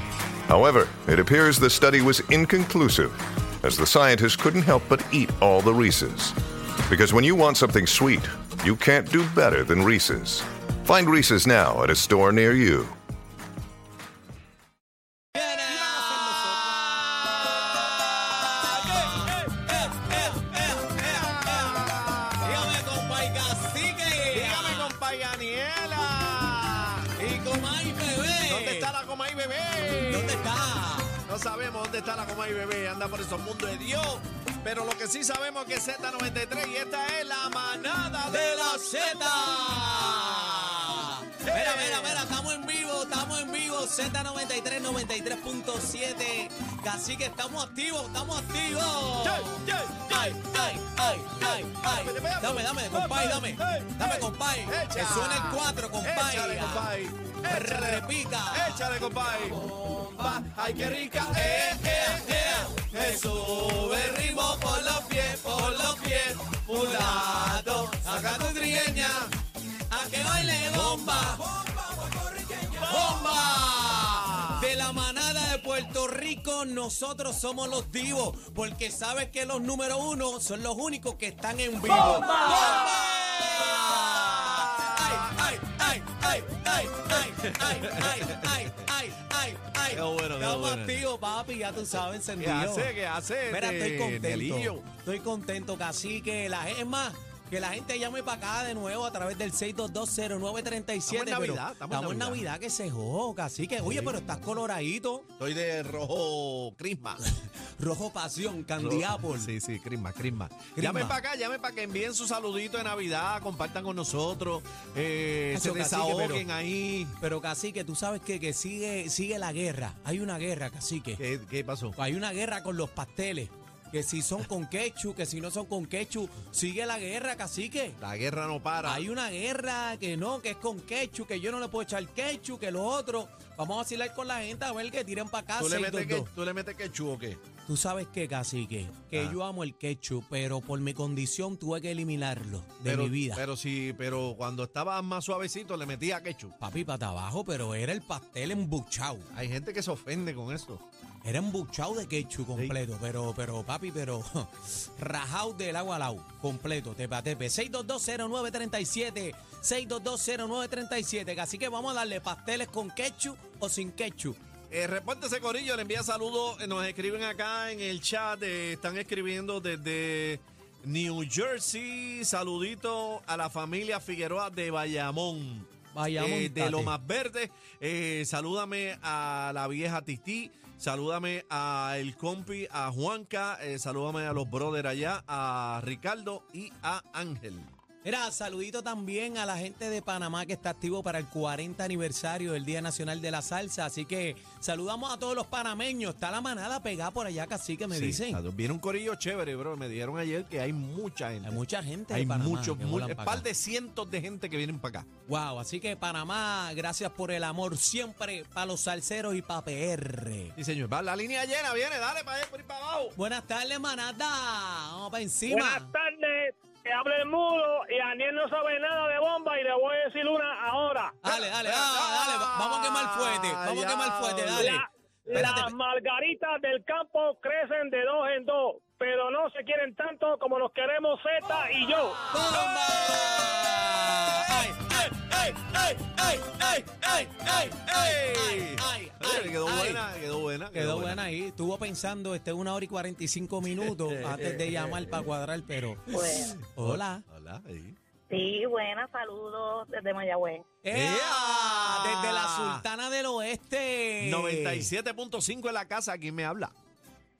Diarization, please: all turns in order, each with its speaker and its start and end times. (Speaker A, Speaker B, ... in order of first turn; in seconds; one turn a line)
Speaker A: 0.5-12.9
Speaker B: 15.3-24.9
Speaker C: 16.0-16.5
Speaker C: 18.6-19.1
Speaker C: 21.0-22.7
Speaker C: 24.3-27.1
Speaker B: 27.1-28.9
Speaker C: 28.4-30.5
Speaker B: 30.0-31.2
Speaker C: 31.3-40.9
Speaker B: 38.3-56.9
Speaker C: 41.4-42.2
Speaker C: 49.2-69.3
Speaker B: 57.5-58.9
Speaker B: 59.6-60.4
Speaker B: 61.2-62.8
Speaker B: 64.1-69.2
Speaker B: 69.9-71.5
Speaker C: 70.7-71.4
Speaker C: 72.6-74.6
Speaker B: 72.7-92.9
Speaker C: 81.9-85.2
Speaker C: 87.1-88.7
Speaker C: 89.9-91.0
Speaker C: 92.4-94.8
Speaker B: 93.5-105.2
Speaker C: 101.0-102.5
Speaker C: 103.8-104.1
Speaker C: 105.4-107.2
Speaker B: 107.2-109.5
Speaker C: 108.8-117.2
Speaker B: 110.8-111.2
Speaker B: 115.5-116.4
Speaker B: 117.2-121.2
Speaker C: 121.2-122.0
Speaker B: 122.0-128.0
Speaker C: 128.0-129.0
Speaker B: 128.8-136.3
Speaker C: 135.6-137.4
Speaker B: 137.7-143.4
Speaker C: 142.8-146.5
Speaker B: 146.6-149.3
Speaker C: 149.3-150.8
Speaker B: 151.2-164.4
Speaker C: 164.7-187.7
Speaker B: 175.9-176.9
Speaker B: 188.0-198.4
Speaker C: 197.9-205.1
Speaker B: 201.4-203.4
Speaker B: 205.3-210.5
Speaker C: 210.6-213.2
Speaker B: 213.2-215.9
Speaker D: 215.5-221.2
Speaker B: 221.2-225.7
Speaker C: 221.3-224.7
Speaker D: 224.6-232.3
Speaker C: 225.3-225.6
Speaker B: 232.3-240.0
Speaker C: 233.0-235.7
Speaker C: 237.2-241.2
Speaker B: 240.7-246.1
Speaker C: 243.8-245.2
Speaker E: 246.1-246.6
Speaker C: 246.1-248.0
Speaker B: 246.7-247.2
Speaker E: 248.3-250.7
Speaker B: 250.8-254.9
Speaker C: 250.9-252.8
Speaker C: 254.2-256.7